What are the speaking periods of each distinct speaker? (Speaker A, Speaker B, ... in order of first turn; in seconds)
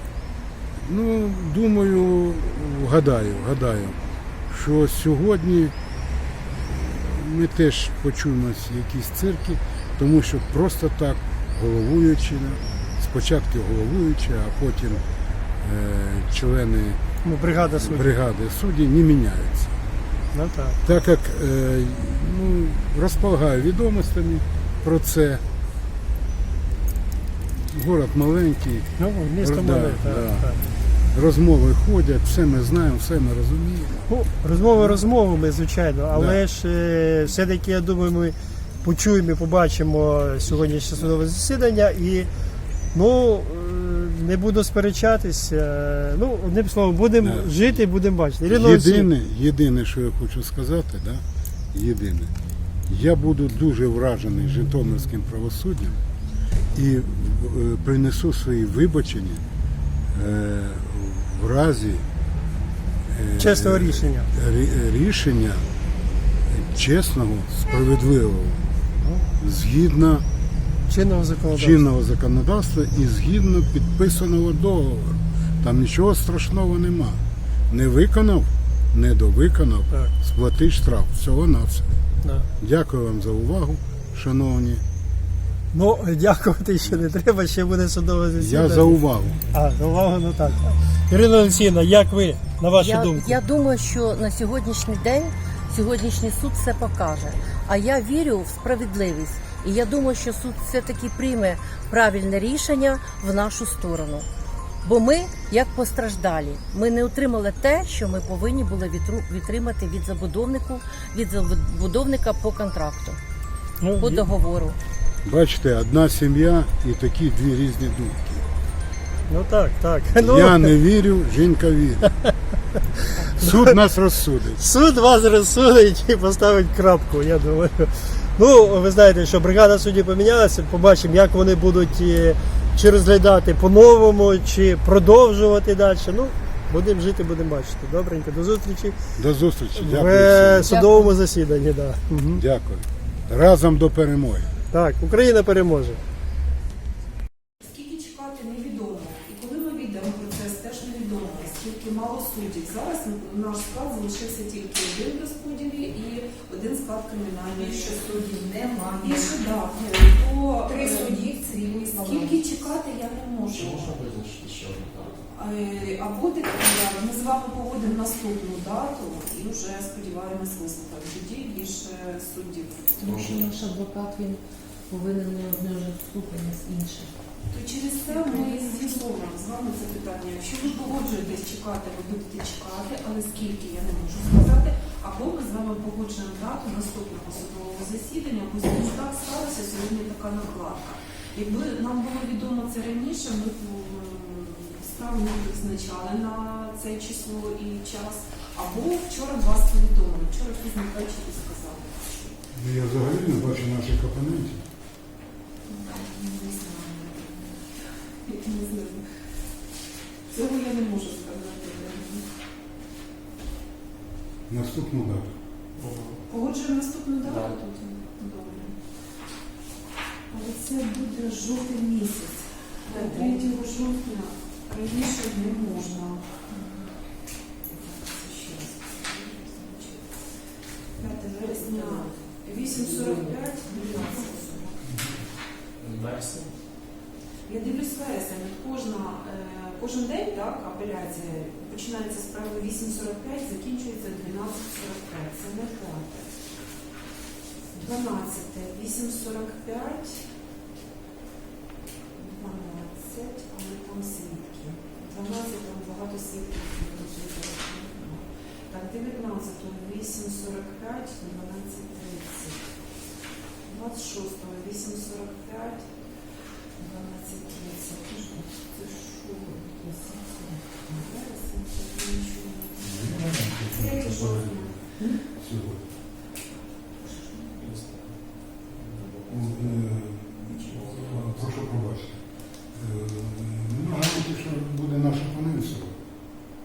Speaker A: 0.8-5.7, 6.5-15.0, 15.6-17.0, 17.8-19.8, 20.8-25.4, 27.7-28.9, 29.4-30.6, 31.1-34.1, 34.8-35.0, 36.1-36.4, 40.7-41.2, 47.2-47.8, 48.4-52.3, 52.9-56.0, 56.7-59.4, 60.1-62.1, 63.1-65.7, 66.5-70.3, 71.5-81.9, 82.6-84.8, 88.4-89.4, 115.2-118.5, 120.2-122.2, 123.3-124.6, 139.2-140.8, 142.3-144.5, 202.5-204.7, 214.5-215.3, 272.8-274.8, 275.4-275.9, 279.3-282.2, 282.7-286.0
Speaker B: 17.2-18.1, 20.3-20.8, 29.0-30.6, 34.1-42.3, 42.9-49.1, 63.4-64.3, 70.9-71.8, 85.7-89.0, 89.5-93.4, 113.8-114.3, 119.3-120.7, 124.6-139.0, 139.8-142.4, 144.7-146.0
Speaker C: 92.8-104.3, 104.8-113.2, 114.0-114.8, 140.7-141.1
Speaker D: 147.6-158.1, 158.7-164.0, 165.3-173.2, 177.5-202.4, 205.7-207.7, 208.2-209.1, 210.3-212.3, 216.3-218.8, 220.3-226.3, 227.7-230.2, 231.0-234.8, 237.4-246.3, 247.7-250.2, 252.2-262.7, 263.7-265.9, 266.8-269.6, 270.8-274.9
Speaker E: 157.6-159.3, 160.7-162.4
Speaker F: 163.5-165.3, 173.0-173.6, 215.8-216.2, 217.2-217.6, 235.8-236.6, 273.2-274.3, 277.6-281.5
Speaker G: 173.0-177.1, 178.1-178.7, 226.5-226.9, 232.7-233.1, 233.7-234.4, 269.4-271.0